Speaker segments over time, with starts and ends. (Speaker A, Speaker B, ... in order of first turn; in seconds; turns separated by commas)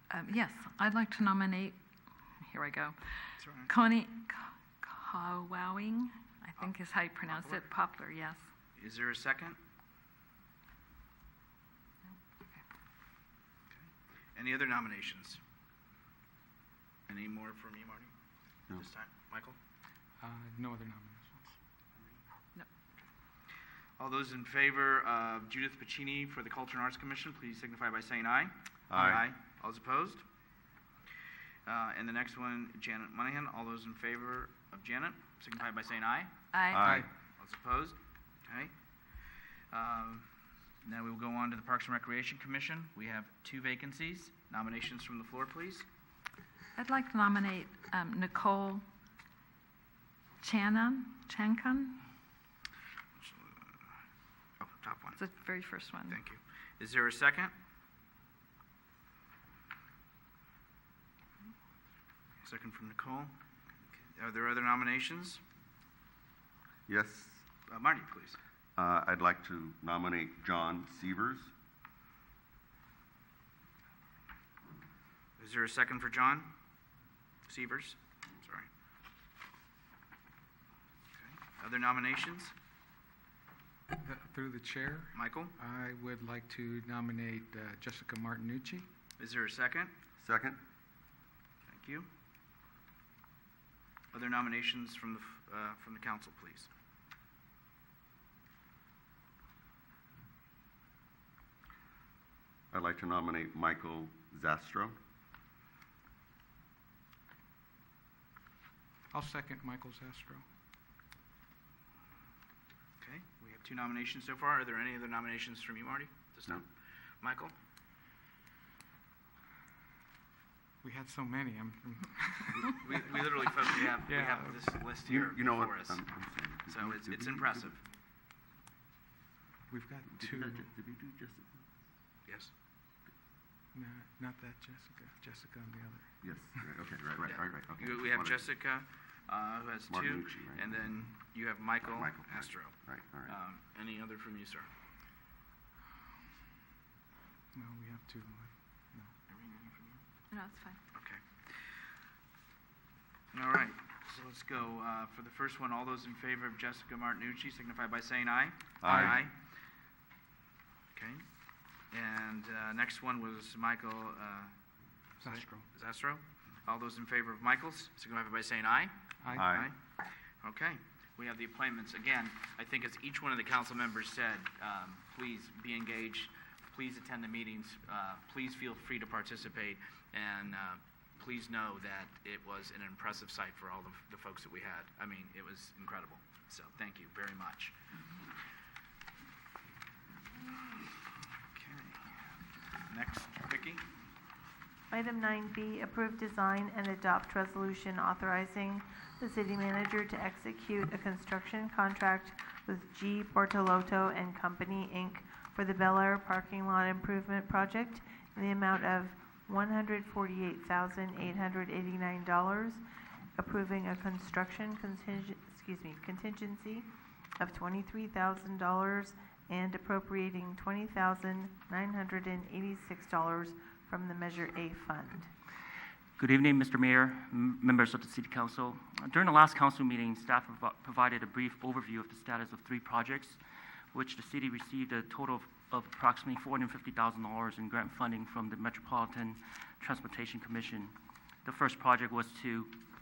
Speaker A: 0.1-1.8, Speaker A: 2.5-8.4, Speaker B: 3.4-3.7, Speaker B: 6.6-7.7, Speaker B: 8.8-9.6, Speaker B: 13.7-15.4, Speaker B: 17.1-18.1, Speaker B: 18.7-19.6, Speaker C: 20.2-21.6, Speaker B: 24.0-30.2, Speaker D: 28.9-29.2, Speaker B: 31.7-36.4, Speaker A: 36.5-36.9, Speaker D: 36.7-37.1, Speaker C: 36.8-37.1, Speaker B: 37.4-38.7, Speaker B: 39.7-40.3, Speaker B: 40.8-45.9, Speaker A: 46.8-48.9, Speaker A: 50.4-52.0, Speaker B: 53.2-53.9, Speaker B: 54.6-55.3, Speaker A: 55.2-56.2, Speaker B: 56.1-57.5, Speaker B: 62.4-63.3, Speaker B: 64.1-65.4, Speaker D: 66.9-67.4, Speaker B: 67.7-68.4, Speaker D: 68.8-71.5, Speaker B: 75.4-76.5, Speaker B: 77.5-78.7, Speaker B: 81.2-82.5, Speaker C: 83.9-88.9, Speaker B: 85.1-85.5, Speaker B: 89.2-89.9, Speaker D: 90.2-90.6, Speaker B: 91.7-92.1, Speaker B: 94.1-96.7, Speaker D: 102.7-105.0, Speaker C: 109.1-110.5, Speaker B: 113.0-116.7, Speaker B: 117.2-117.5, Speaker C: 120.8-123.0, Speaker B: 122.7-126.0, Speaker C: 124.0-124.7, Speaker D: 125.1-127.7, Speaker B: 126.7-127.8, Speaker C: 129.7-130.7, Speaker D: 130.1-131.6, Speaker C: 133.7-136.4, Speaker D: 136.2-138.5, Speaker B: 137.2-142.8, Speaker D: 139.9-140.8, Speaker D: 141.8-143.4, Speaker B: 143.3-144.7, Speaker C: 147.5-149.1, Speaker B: 149.3-150.0, Speaker A: 150.3-150.8, Speaker B: 150.9-151.2, Speaker B: 153.3-159.3, Speaker D: 158.8-159.2, Speaker C: 158.8-159.2, Speaker B: 160.9-161.2, Speaker B: 161.9-164.5, Speaker B: 165.2-169.8, Speaker C: 165.2-165.7, Speaker C: 169.2-169.6, Speaker D: 169.3-169.7, Speaker B: 170.4-187.8, Speaker B: 191.6-192.1, Speaker B: 192.9-193.8, Speaker E: 194.9-212.8, Speaker E: 213.4-216.9, Speaker E: 217.4-225.3, Speaker F: 226.2-233.4, Speaker F: 233.9-240.9, Speaker F: 241.4-242.7